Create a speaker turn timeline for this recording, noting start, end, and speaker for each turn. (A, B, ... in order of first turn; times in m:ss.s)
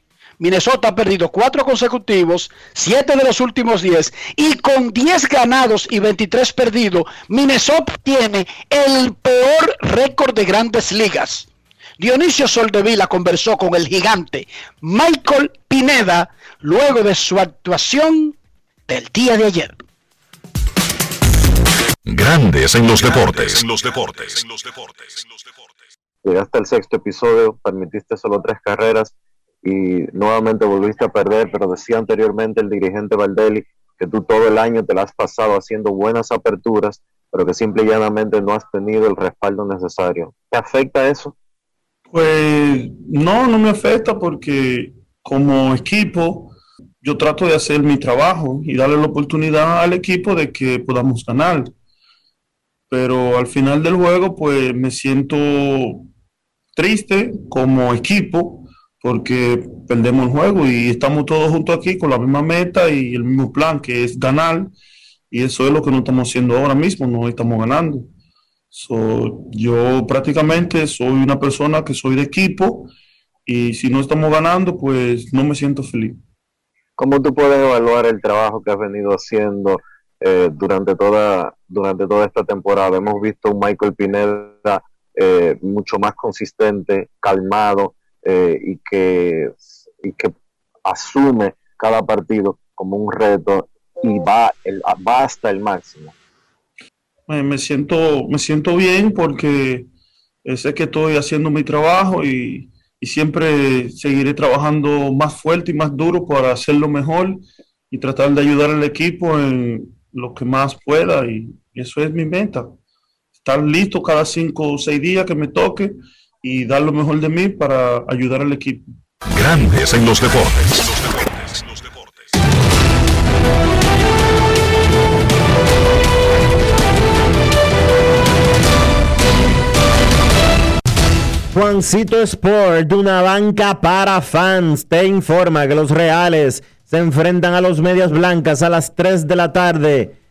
0:00.4-0:11.5 A
0:12.0-0:18.4 A
0:18.9-0:19.8 A
0:22.1-0:25.6 B
0:26.2-0:41.4 C
0:42.1-0:51.7 D
0:52.9-0:56.1 D
0:56.8-1:04.7 D
1:05.3-1:08.1 D
1:08.7-1:12.9 D
1:13.5-1:16.2 D
1:17.0-1:36.1 C
1:37.3-1:39.9 D
1:40.5-1:52.8 D
1:53.4-1:58.8 D
1:59.3-2:02.3 B
2:11.5-2:20.2 E